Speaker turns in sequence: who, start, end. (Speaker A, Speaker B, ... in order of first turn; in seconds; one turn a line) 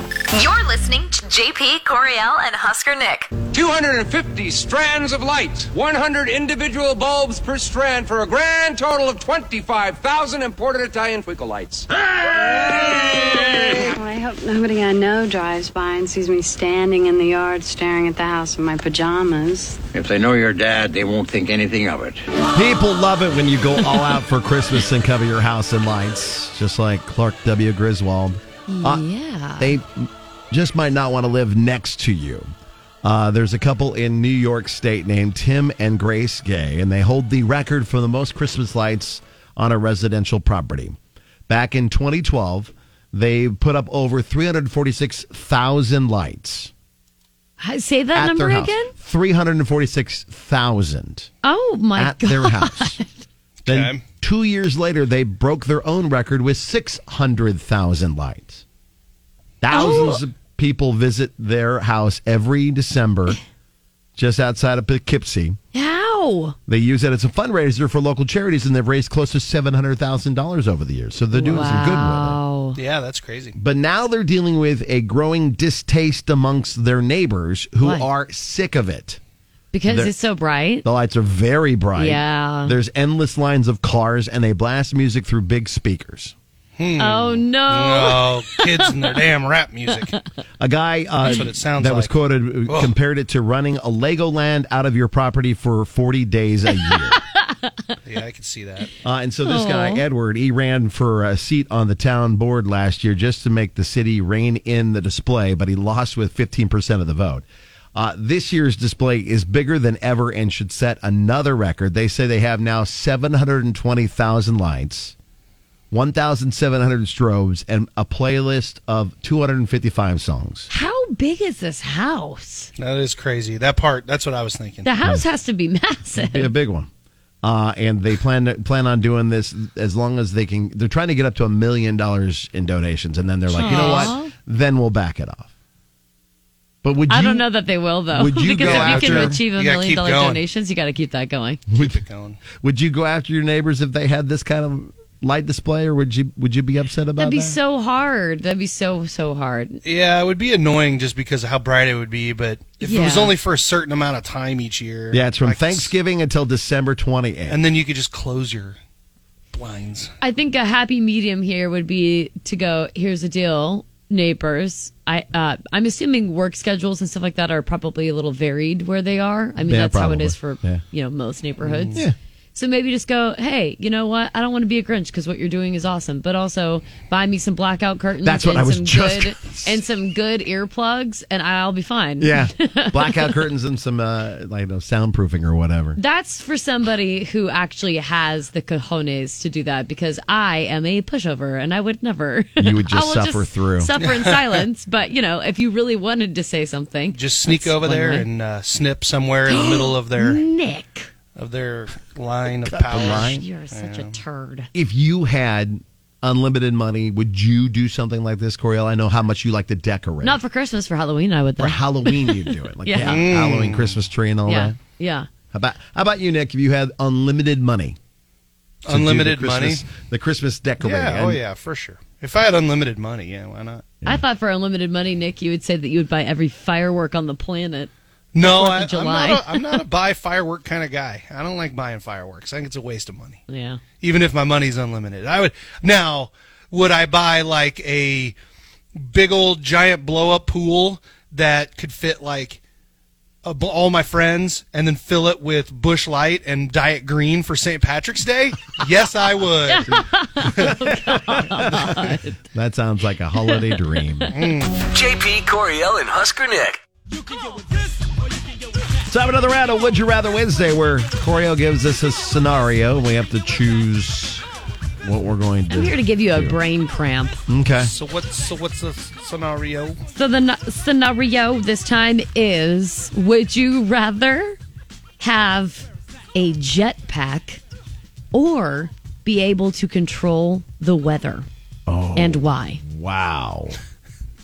Speaker A: 0.3-3.3
Speaker B: 3.5-11.9
Speaker B: 12.6-13.8
Speaker C: 13.8-19.8
Speaker D: 19.9-22.2
Speaker E: 22.5-29.0
Speaker F: 28.7-29.8
Speaker E: 29.6-32.5
Speaker E: 33.0-41.0
Speaker E: 41.5-46.7
Speaker F: 47.6-48.9
Speaker E: 48.1-51.3
Speaker F: 51.4-53.1
Speaker E: 52.0-53.0
Speaker G: 53.6-54.0
Speaker E: 53.6-58.6
Speaker E: 59.6-63.4
Speaker F: 59.7-60.2
Speaker E: 64.2-65.6
Speaker F: 65.7-66.5
Speaker E: 66.7-72.4
Speaker F: 71.3-72.8
Speaker G: 72.8-73.5
Speaker E: 73.5-79.2
Speaker F: 77.8-78.1
Speaker F: 79.7-80.8
Speaker E: 79.9-80.1
Speaker E: 80.8-86.3
Speaker F: 82.0-82.7
Speaker G: 86.8-90.2
Speaker F: 87.0-89.2
Speaker E: 90.6-97.2
Speaker G: 91.3-92.1
Speaker G: 92.7-92.9
Speaker F: 96.8-97.7
Speaker G: 98.0-98.9
Speaker E: 99.0-115.1
Speaker F: 99.5-100.0
Speaker E: 115.9-120.7
Speaker F: 120.7-122.7
Speaker G: 122.8-124.9
Speaker F: 124.8-126.5
Speaker E: 126.1-126.9
Speaker E: 127.4-135.5
Speaker F: 133.6-134.3
Speaker G: 133.6-134.1
Speaker E: 136.8-137.4
Speaker F: 137.1-141.6
Speaker E: 138.1-139.4
Speaker G: 138.6-140.4
Speaker G: 141.8-142.4
Speaker E: 142.5-147.6
Speaker F: 147.2-149.8
Speaker G: 149.8-155.9
Speaker F: 152.8-153.3
Speaker E: 155.1-157.6
Speaker G: 157.5-158.8
Speaker G: 159.5-160.1
Speaker F: 160.2-172.0
Speaker E: 169.6-170.8
Speaker G: 171.7-172.0
Speaker F: 172.5-183.4
Speaker E: 178.2-179.8
Speaker E: 182.2-186.0
Speaker F: 185.9-198.3
Speaker E: 192.6-193.9
Speaker G: 194.0-194.6
Speaker G: 197.1-200.4
Speaker F: 199.5-201.1
Speaker G: 201.3-204.2
Speaker E: 202.7-203.4
Speaker F: 202.9-204.7
Speaker E: 204.7-210.4
Speaker F: 210.2-213.2
Speaker E: 211.6-214.8
Speaker G: 213.0-214.0
Speaker F: 214.4-215.3
Speaker E: 215.5-218.0
Speaker G: 218.8-219.8
Speaker E: 218.9-221.4
Speaker G: 220.8-223.9
Speaker F: 224.1-229.8
Speaker G: 228.3-233.4
Speaker F: 233.5-233.8
Speaker G: 234.0-238.3
Speaker G: 239.0-242.6
Speaker G: 243.4-250.0
Speaker F: 249.7-252.4
Speaker E: 250.6-252.0
Speaker E: 252.5-254.3
Speaker F: 253.4-254.3
Speaker G: 254.3-254.7
Speaker H: 254.8-256.8
Speaker E: 259.1-264.4
Speaker E: 265.0-266.6
Speaker F: 265.7-267.4
Speaker E: 267.5-267.9
Speaker G: 267.8-270.0
Speaker F: 270.1-274.6
Speaker F: 275.2-277.6
Speaker F: 278.3-281.5
Speaker E: 281.9-283.8
Speaker F: 282.1-282.8